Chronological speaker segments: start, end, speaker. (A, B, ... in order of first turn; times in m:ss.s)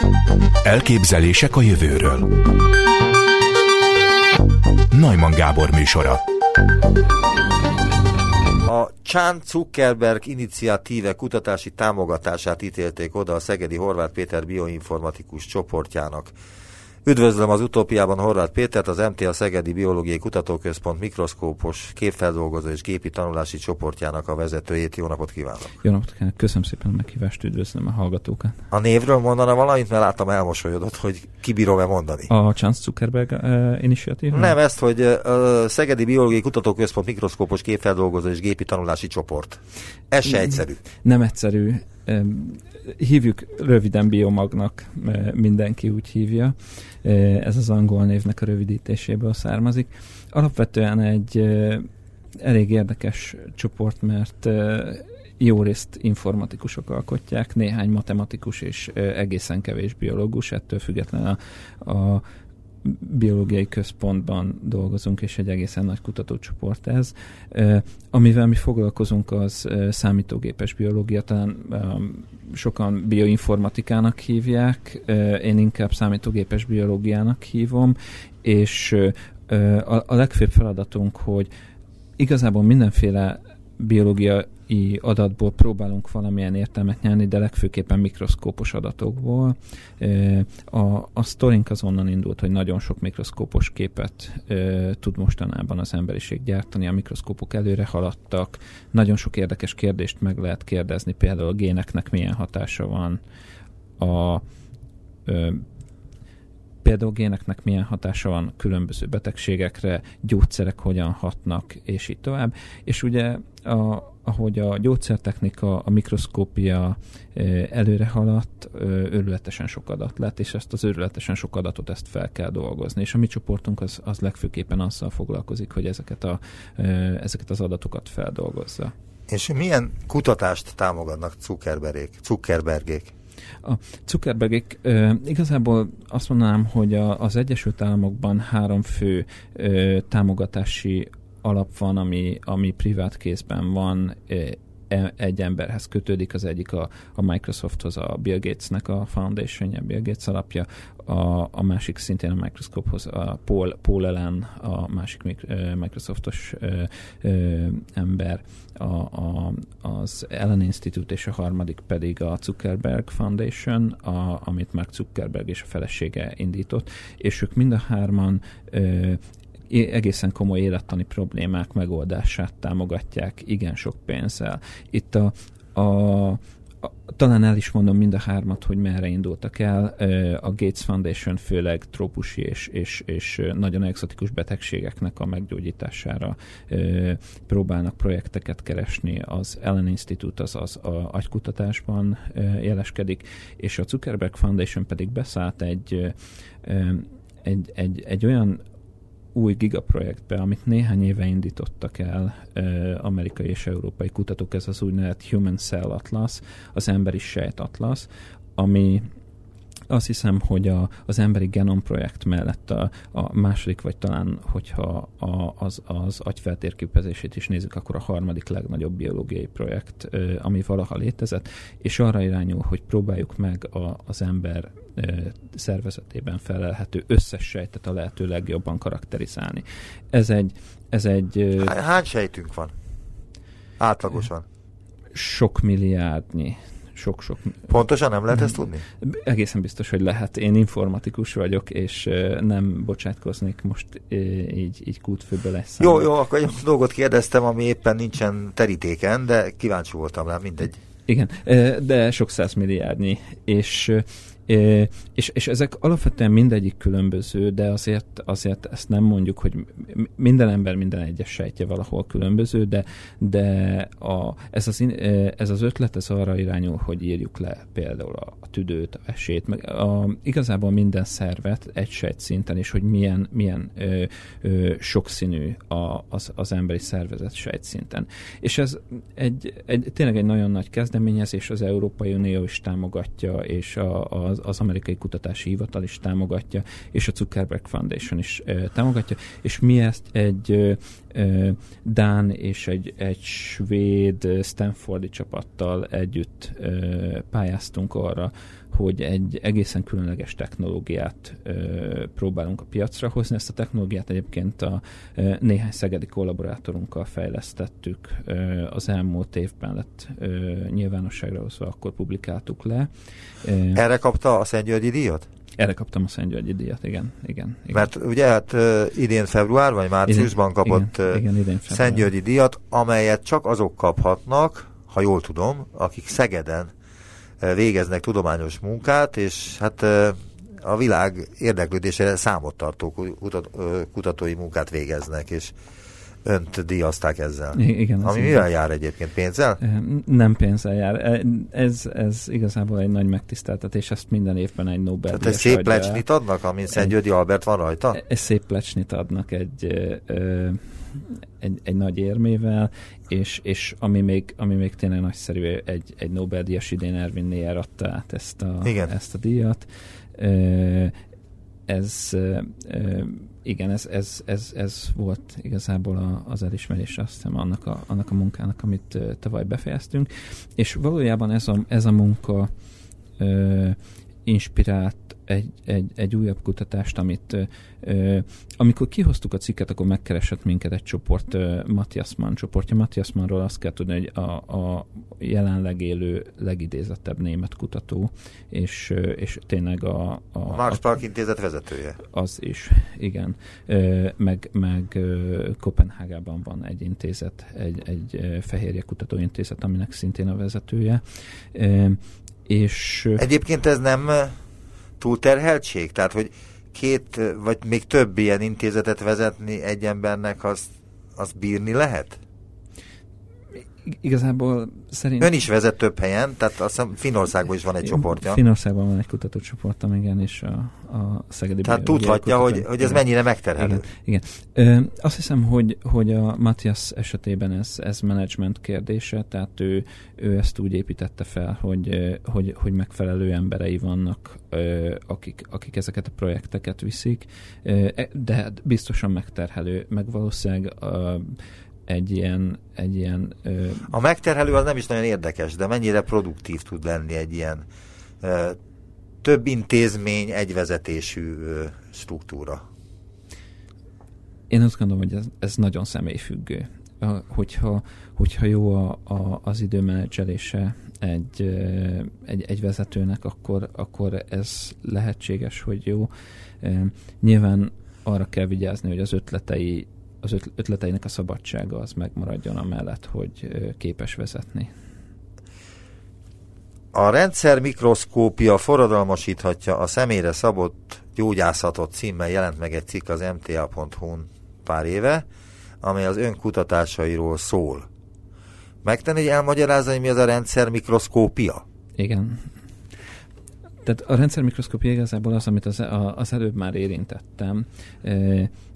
0:00.6-0:02.5 A
0:04.9-0:06.2 A
0:08.6-0:16.3 B
0:17.0-0:25.7 B
0:25.8-0:28.6 C
0:28.7-0:32.3 B
0:32.3-0:34.6 C
0:34.3-0:40.8 B
0:40.2-0:51.9 C
0:52.4-1:02.2 C
1:02.8-1:21.5 C
1:22.2-1:43.2 C
1:44.0-1:44.4 C
1:45.3-1:45.6 C
1:46.8-2:08.9 C
2:09.3-2:13.1 B
2:13.6-3:18.6 C
3:19.3-3:29.1 C
3:29.9-3:51.8 C
3:51.6-3:52.7 B
3:53.8-3:54.4 B
3:55.1-3:57.7 C
3:57.7-3:58.8 B
3:58.3-4:06.1 C
4:05.8-4:10.8 B
4:11.1-5:12.9 C
5:13.4-5:13.8 C
5:13.7-5:15.3 B
5:15.6-5:17.9 C
5:17.7-5:26.7 B
5:20.1-5:22.1 C
5:27.4-5:35.6 B
5:36.2-5:39.6 B
5:37.5-5:38.5 C
5:39.6-5:46.0 C
5:45.1-5:48.0 B
5:47.9-6:01.0 C
5:58.6-5:58.9 B
6:01.7-6:12.5 C
6:13.2-6:30.9 C
6:30.5-6:32.0 B
6:32.1-6:41.0 C
6:41.5-6:43.2 C
6:43.2-6:44.4 B
6:45.0-6:52.2 B
6:53.8-6:55.4 C
6:55.2-6:58.4 B
6:57.8-7:03.0 C
7:01.6-7:03.8 B
7:03.6-7:23.9 C
7:23.9-7:27.7 B
7:28.2-7:28.6 B
7:29.2-7:32.6 B
7:34.5-7:46.1 C
7:46.6-7:54.7 C
7:56.9-8:05.3 B
8:05.8-8:07.9 B
8:08.8-8:11.6 B
8:12.0-8:12.5 C
8:13.8-8:18.5 C